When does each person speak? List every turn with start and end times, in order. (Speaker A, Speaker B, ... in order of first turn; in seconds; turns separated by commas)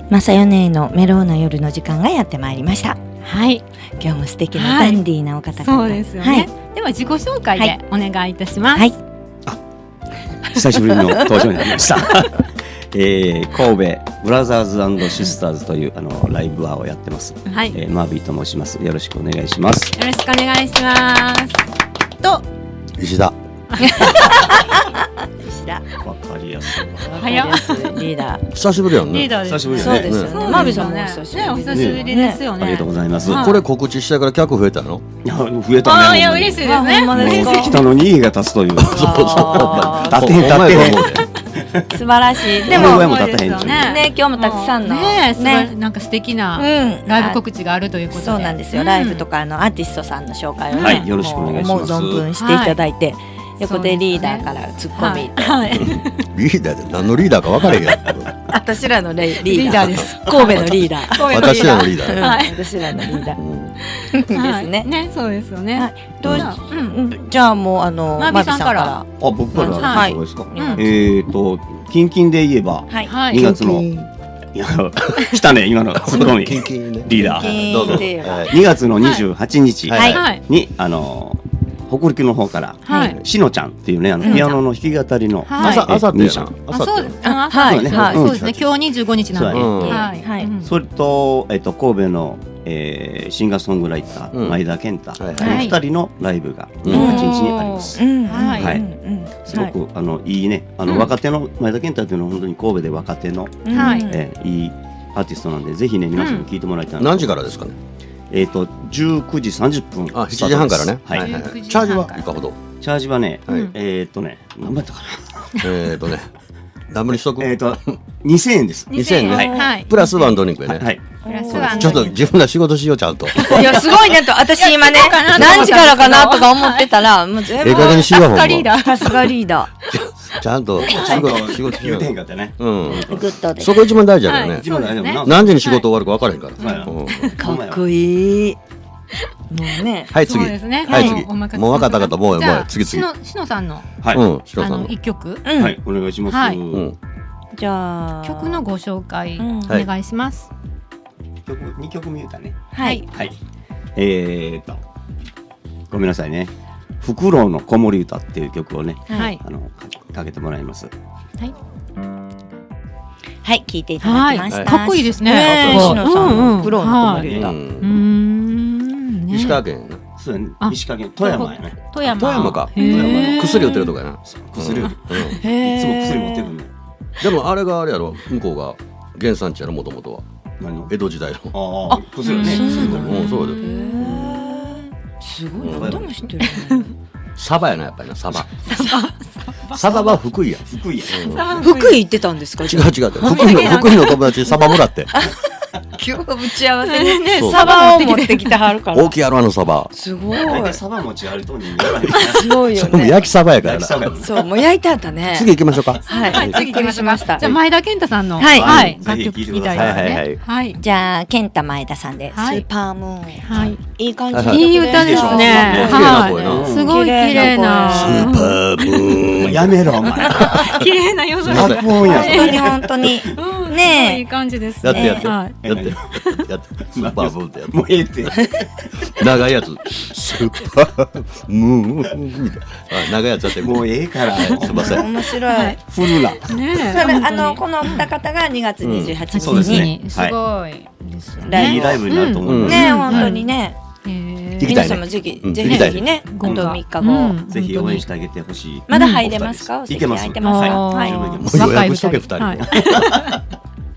Speaker A: 0.1-3.0, Speaker B: 3.2-3.6, Speaker A: 4.0-6.5, Speaker B: 4.5-5.0, Speaker B: 5.6-8.9, Speaker C: 10.5-19.9, Speaker B: 17.5-17.8, Speaker B: 19.9-21.6, Speaker B: 22.2-22.4, Speaker D: 23.0-23.4, Speaker B: 23.8-24.4, Speaker A: 23.8-25.9, Speaker C: 26.0-27.1, Speaker A: 27.0-28.5, Speaker B: 27.1-28.0, Speaker D: 28.5-30.8, Speaker B: 29.1-33.6, Speaker C: 29.4-30.8, Speaker A: 29.7-32.4, Speaker C: 31.7-33.6, Speaker D: 33.2-35.0, Speaker C: 35.2-42.0, Speaker B: 35.8-38.0, Speaker A: 36.6-37.9, Speaker D: 38.8-41.3, Speaker A: 38.8-40.5, Speaker A: 41.9-43.1, Speaker B: 42.6-49.2, Speaker C: 42.6-44.1, Speaker D: 42.7-43.0, Speaker A: 43.7-45.7, Speaker A: 46.5-47.4, Speaker A: 48.1-55.7, Speaker B: 50.7-51.0, Speaker C: 50.8-52.3, Speaker B: 52.3-52.8, Speaker B: 53.6-56.3, Speaker D: 55.8-58.3, Speaker A: 58.5-63.4, Speaker B: 59.4-63.3, Speaker D: 59.8-62.4, Speaker D: 63.4-63.8, Speaker B: 63.8-67.0, Speaker A: 64.1-64.9, Speaker A: 65.7-71.1, Speaker D: 66.2-66.5, Speaker B: 68.2-69.0, Speaker C: 69.2-73.9, Speaker B: 69.8-70.8, Speaker A: 72.9-74.1, Speaker B: 73.1-73.5, Speaker C: 74.5-86.5, Speaker D: 76.0-78.7, Speaker A: 77.2-78.5, Speaker B: 79.0-79.2, Speaker D: 79.8-80.2, Speaker A: 79.9-80.2, Speaker B: 80.1-80.4, Speaker B: 82.8-83.2, Speaker A: 82.8-83.2, Speaker A: 84.2-84.6, Speaker B: 84.2-84.6, Speaker B: 85.5-85.8, Speaker D: 85.6-87.3, Speaker A: 85.6-85.9, Speaker B: 86.7-90.7, Speaker A: 87.2-88.3, Speaker C: 87.6-88.4, Speaker D: 87.9-88.7, Speaker C: 89.3-98.8, Speaker D: 89.5-90.1, Speaker A: 90.0-90.5, Speaker D: 94.3-94.6, Speaker D: 95.2-95.7, Speaker B: 95.4-95.8, Speaker D: 96.8-97.3, Speaker A: 96.9-99.7, Speaker B: 96.9-98.8, Speaker C: 99.4-107.3, Speaker A: 103.6-104.2, Speaker B: 103.7-104.1, Speaker B: 106.2-106.5, Speaker D: 107.0-107.8, Speaker C: 108.3-111.3, Speaker D: 110.1-112.6, Speaker B: 111.1-112.4, Speaker C: 112.8-115.6, Speaker D: 113.5-113.7, Speaker D: 115.6-116.3, Speaker D: 116.9-117.9, Speaker C: 117.4-119.6, Speaker B: 118.9-120.4, Speaker D: 118.9-120.9, Speaker A: 119.3-119.8, Speaker C: 120.7-122.1, Speaker A: 121.2-122.0, Speaker B: 121.2-122.2, Speaker D: 121.7-124.0, Speaker B: 123.3-123.9, Speaker A: 123.4-129.7, Speaker B: 124.5-127.0, Speaker D: 125.3-125.8, Speaker B: 127.6-129.3, Speaker D: 127.6-129.1, Speaker D: 129.9-134.7, Speaker A: 130.8-131.3, Speaker C: 130.8-133.3, Speaker B: 130.8-131.2, Speaker A: 133.0-134.0, Speaker B: 134.3-135.8, Speaker C: 134.5-135.7, Speaker D: 135.2-137.3, Speaker C: 136.6-137.8, Speaker B: 136.6-137.4, Speaker A: 137.4-138.6, Speaker A: 139.5-140.1, Speaker D: 140.1-143.1, Speaker B: 140.1-143.9, Speaker A: 140.8-141.2, Speaker D: 144.1-144.9, Speaker B: 144.6-145.4, Speaker A: 145.4-145.8, Speaker C: 145.6-146.9, Speaker B: 146.3-146.6, Speaker D: 146.7-147.0, Speaker A: 147.5-148.7, Speaker B: 148.2-150.5, Speaker A: 149.4-149.8, Speaker C: 151.4-153.3, Speaker A: 152.7-153.0, Speaker B: 152.8-153.1, Speaker C: 153.9-154.8, Speaker C: 155.9-160.9, Speaker A: 159.1-159.3, Speaker B: 159.1-159.4, Speaker A: 163.4-167.6, Speaker B: 164.0-169.6, Speaker D: 164.5-166.7, Speaker C: 167.1-167.6, Speaker D: 167.3-168.0, Speaker D: 169.3-170.0, Speaker C: 170.2-171.8, Speaker B: 170.6-173.9, Speaker D: 172.0-175.4, Speaker C: 172.7-176.7, Speaker A: 175.4-176.5, Speaker D: 177.2-180.2, Speaker C: 180.6-180.9, Speaker D: 180.9-181.5, Speaker C: 181.5-183.2, Speaker A: 181.9-186.9, Speaker B: 182.2-184.8, Speaker D: 182.7-183.6, Speaker C: 184.0-184.3, Speaker D: 185.6-186.1, Speaker C: 185.6-186.1, Speaker B: 186.5-186.9, Speaker D: 187.3-188.5, Speaker A: 188.6-189.1, Speaker B: 188.7-190.2, Speaker D: 189.7-191.4, Speaker C: 190.7-191.5, Speaker B: 191.1-192.0, Speaker A: 191.5-194.4, Speaker D: 192.7-195.1, Speaker B: 193.2-194.2, Speaker A: 195.1-199.2, Speaker B: 196.8-198.6, Speaker D: 197.3-197.9, Speaker D: 198.9-199.9, Speaker A: 199.9-200.8, Speaker C: 200.3-202.6, Speaker A: 202.2-203.3, Speaker D: 202.7-204.1, Speaker C: 203.6-204.3, Speaker A: 204.1-207.5, Speaker D: 205.3-206.6, Speaker B: 206.1-210.8, Speaker A: 208.3-208.9, Speaker C: 208.4-210.2, Speaker D: 209.7-210.4, Speaker A: 210.8-218.4, Speaker B: 212.3-212.7, Speaker B: 213.4-213.8, Speaker D: 214.3-214.7, Speaker B: 214.4-219.1, Speaker C: 214.7-217.6, Speaker D: 215.7-216.7, Speaker D: 217.8-220.7, Speaker C: 219.4-220.7, Speaker B: 220.3-222.7, Speaker D: 221.4-222.3, Speaker C: 221.4-223.4, Speaker A: 221.9-224.2, Speaker B: 223.2-225.6, Speaker D: 224.8-228.3, Speaker A: 224.9-225.3, Speaker C: 225.6-226.1, Speaker B: 226.1-226.5, Speaker C: 226.9-229.3, Speaker D: 229.0-235.1, Speaker C: 233.6-236.6, Speaker B: 234.4-235.8, Speaker A: 234.7-235.8, Speaker B: 236.3-238.1, Speaker A: 236.7-239.9, Speaker D: 238.8-239.2, Speaker B: 239.3-243.5, Speaker C: 239.4-240.4, Speaker A: 241.4-242.0, Speaker C: 241.5-243.2, Speaker D: 242.4-243.3, Speaker A: 242.6-243.8, Speaker B: 244.0-245.0, Speaker D: 244.6-246.1, Speaker A: 244.6-247.4, Speaker B: 245.6-248.1, Speaker C: 245.6-246.8, Speaker C: 247.5-251.8, Speaker A: 248.9-251.4, Speaker B: 248.9-249.3, Speaker B: 250.4-253.4, Speaker D: 251.4-253.2, Speaker C: 252.6-253.4